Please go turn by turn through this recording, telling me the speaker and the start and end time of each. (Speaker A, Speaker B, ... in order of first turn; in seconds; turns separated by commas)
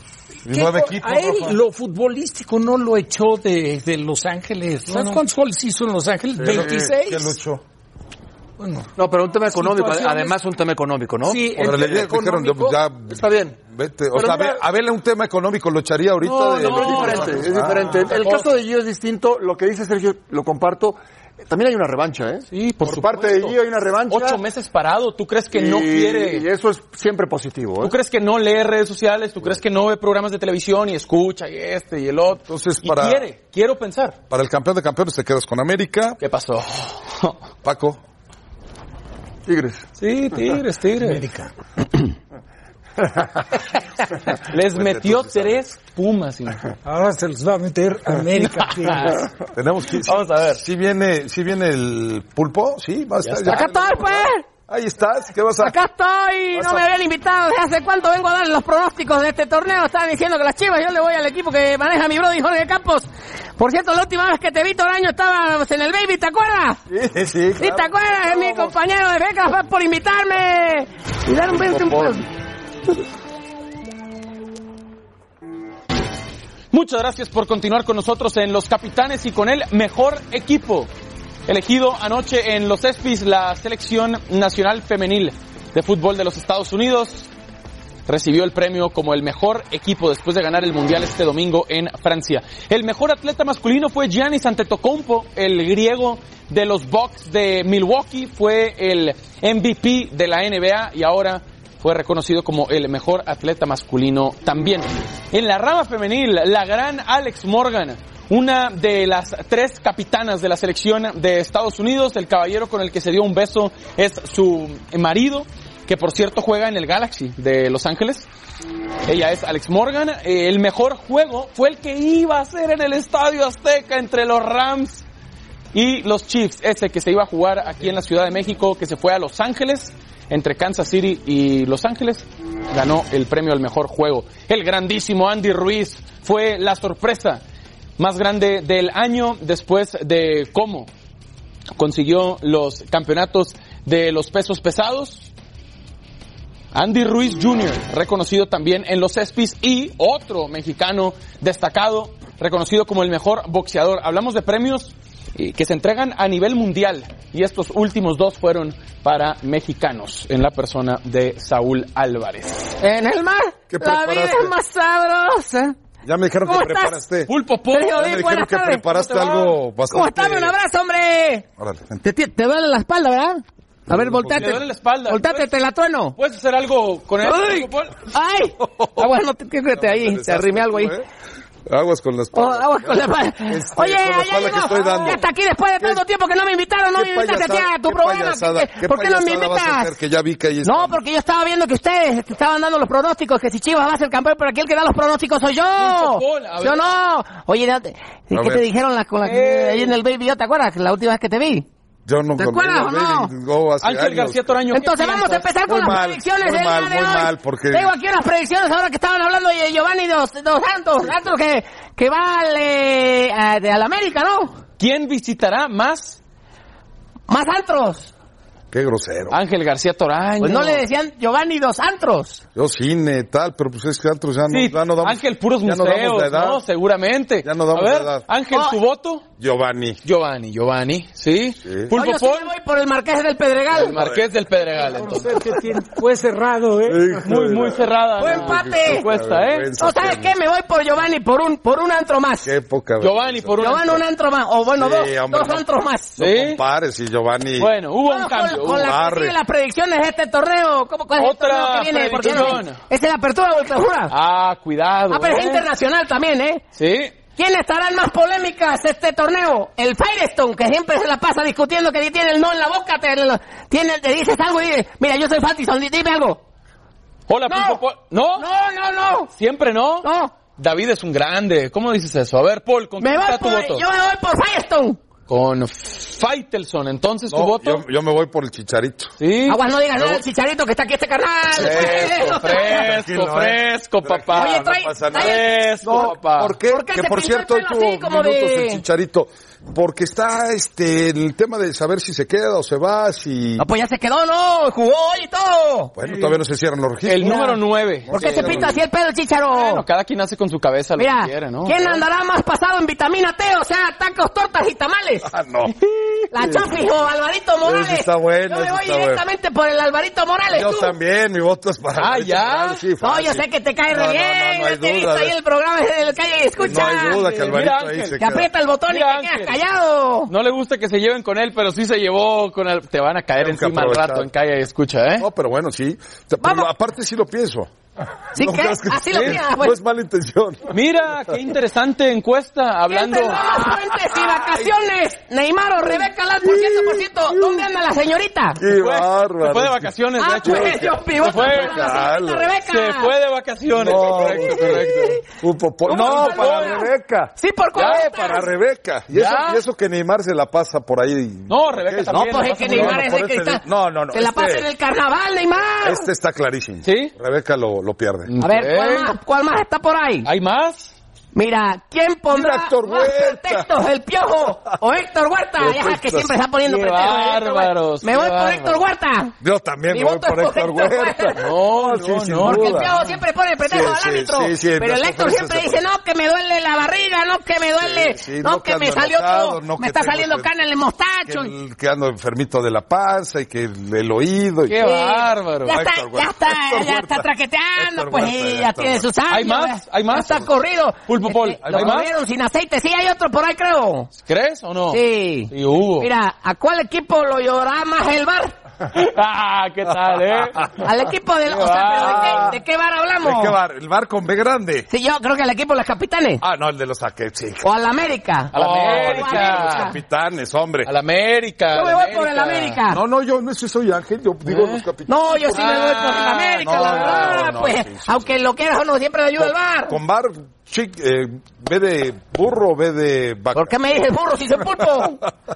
Speaker A: 0.5-1.6, Speaker B: 0.5-7.4, Speaker C: 6.4-6.9, Speaker A: 6.4-7.6, Speaker B: 8.6-8.9, Speaker C: 9.0-12.2, Speaker B: 9.5-10.4, Speaker B: 11.2-12.8, Speaker A: 11.6-17.9, Speaker C: 13.1-13.6, Speaker C: 14.2-14.5, Speaker D: 16.2-18.5, Speaker C: 16.4-24.4, Speaker D: 22.5-26.5, Speaker C: 25.5-27.9, Speaker D: 27.8-34.2, Speaker A: 32.5-33.3, Speaker A: 34.3-36.2, Speaker D: 36.2-37.4, Speaker A: 37.6-38.0, Speaker C: 39.5-39.9, Speaker D: 40.0-41.2, Speaker B: 41.0-41.5, Speaker D: 44.4-46.7, Speaker A: 44.6-45.6, Speaker B: 46.9-49.2, Speaker D: 48.4-49.3, Speaker A: 49.5-55.7, Speaker D: 50.0-50.6, Speaker D: 53.2-53.7, Speaker E: 53.4-54.5, Speaker E: 55.6-66.8, Speaker A: 56.5-56.8, Speaker A: 67.0-68.8, Speaker E: 67.6-72.3, Speaker A: 71.5-72.2, Speaker D: 76.7-80.9, Speaker D: 81.5-87.3, Speaker D: 88.1-118.3, Speaker D: 119.1-125.0, Speaker D: 125.7-137.4, Speaker D: 138.0-140.9, Speaker D: 141.8-145.3, Speaker D: 146.7-162.8, Speaker E: 162.8-165.8, Speaker A: 163.7-164.5, Speaker A: 166.0-167.3, Speaker E: 166.4-167.0, Speaker D: 167.3-168.2, Speaker E: 167.7-168.9, Speaker A: 167.9-170.5, Speaker D: 168.8-169.6, Speaker E: 169.8-171.4, Speaker A: 171.6-172.0, Speaker E: 172.0-176.2, Speaker A: 173.9-174.5, Speaker D: 174.2-175.5, Speaker D: 176.2-178.1, Speaker E: 177.2-181.0, Speaker A: 178.8-179.1, Speaker A: 179.7-181.1, Speaker A: 181.7-185.2, Speaker E: 182.3-189.9, Speaker A: 186.9-191.0, Speaker E: 190.6-201.7, Speaker D: 195.8-196.8, Speaker A: 198.3-198.6, Speaker D: 199.2-200.0, Speaker A: 202.1-204.6, Speaker E: 202.4-203.3, Speaker D: 203.8-205.5, Speaker E: 204.7-214.6, Speaker A: 205.7-207.9, Speaker D: 214.8-216.2, Speaker E: 217.3-218.1, Speaker A: 218.7-219.4, Speaker D: 219.3-220.8, Speaker E: 220.4-222.4, Speaker A: 222.6-226.6, Speaker D: 224.5-229.2, Speaker A: 227.4-228.3, Speaker E: 228.5-228.8, Speaker A: 229.4-230.0, Speaker D: 230.0-232.5, Speaker A: 231.6-231.9, Speaker E: 231.9-234.0, Speaker D: 233.7-235.3, Speaker A: 233.8-234.2, Speaker B: 235.0-237.2, Speaker A: 236.9-240.3, Speaker D: 237.2-239.7, Speaker E: 238.2-239.1, Speaker E: 239.7-242.5, Speaker A: 242.4-243.8, Speaker D: 243.0-244.0, Speaker E: 243.6-246.2, Speaker A: 244.7-245.7, Speaker A: 246.2-247.8, Speaker D: 246.2-246.6, Speaker D: 247.6-249.0, Speaker E: 248.0-254.2, Speaker A: 248.6-249.4, Speaker D: 251.2-252.8, Speaker D: 254.1-255.7, Speaker E: 255.1-256.6, Speaker D: 256.8-257.2, Speaker E: 257.3-266.4, Speaker D: 267.3-268.5, Speaker E: 267.5-269.3, Speaker D: 269.3-273.8, Speaker E: 270.0-270.4, Speaker E: 273.0-275.0, Speaker D: 275.3-277.8, Speaker A: 277.3-279.2, Speaker D: 279.2-279.6, Speaker E: 279.5-282.9, Speaker A: 280.0-280.2, Speaker A: 281.5-293.6, Speaker D: 281.5-286.6, Speaker E: 284.3-286.1, Speaker E: 286.6-288.8, Speaker E: 293.6-295.9, Speaker A: 295.9-298.8, Speaker D: 297.1-298.7, Speaker E: 297.2-299.9, Speaker D: 299.5-302.0, Speaker E: 301.0-305.3, Speaker A: 305.3-305.8, Speaker E: 306.3-310.9, Speaker A: 306.3-306.8, Speaker A: 307.6-309.2, Speaker A: 310.5-315.4, Speaker D: 312.0-312.9, Speaker E: 313.0-317.5, Speaker A: 316.6-318.5, Speaker D: 316.7-318.2, Speaker E: 318.2-320.3, Speaker D: 318.9-319.6, Speaker D: 320.3-325.3, Speaker A: 323.4-324.3, Speaker A: 325.2-327.7, Speaker E: 326.4-326.7, Speaker A: 328.4-330.8, Speaker E: 328.4-329.8, Speaker D: 329.1-329.4, Speaker D: 330.7-333.9, Speaker E: 332.9-338.6, Speaker A: 336.4-337.6, Speaker A: 338.6-342.6, Speaker D: 338.6-342.0, Speaker E: 340.2-343.1, Speaker D: 342.6-345.2, Speaker A: 343.7-354.7, Speaker E: 343.9-345.2, Speaker D: 345.9-346.9, Speaker E: 345.9-348.5, Speaker D: 347.8-348.1, Speaker D: 349.1-349.6, Speaker D: 351.5-353.1, Speaker E: 352.1-356.1, Speaker A: 355.8-358.3, Speaker D: 356.8-357.1, Speaker D: 358.3-359.2, Speaker E: 358.4-360.3, Speaker D: 360.2-360.9, Speaker E: 361.3-369.3, Speaker A: 362.3-363.7, Speaker A: 365.6-366.3, Speaker D: 366.6-368.8, Speaker A: 369.4-373.1, Speaker E: 369.9-371.5, Speaker D: 371.4-373.1, Speaker E: 372.4-381.5, Speaker A: 373.6-375.8, Speaker A: 377.8-380.5, Speaker A: 381.3-384.9, Speaker D: 384.7-385.7, Speaker E: 384.8-394.1, Speaker A: 385.7-389.1, Speaker D: 389.3-390.5, Speaker D: 391.1-392.1, Speaker A: 391.6-392.0, Speaker D: 394.2-396.1, Speaker E: 394.9-398.6, Speaker D: 398.9-400.8, Speaker A: 399.9-400.8, Speaker E: 400.8-403.6, Speaker D: 401.5-402.5, Speaker A: 401.9-402.6, Speaker A: 403.2-404.9, Speaker E: 404.9-406.4, Speaker A: 406.4-407.7, Speaker E: 407.6-410.0, Speaker D: 408.5-409.9, Speaker A: 408.5-410.9, Speaker D: 410.9-412.8, Speaker E: 411.7-413.0, Speaker A: 412.9-415.8, Speaker D: 414.5-414.9, Speaker E: 415.1-420.0, Speaker D: 415.5-417.6, Speaker A: 416.6-418.3, Speaker A: 419.4-423.7, Speaker E: 423.5-425.2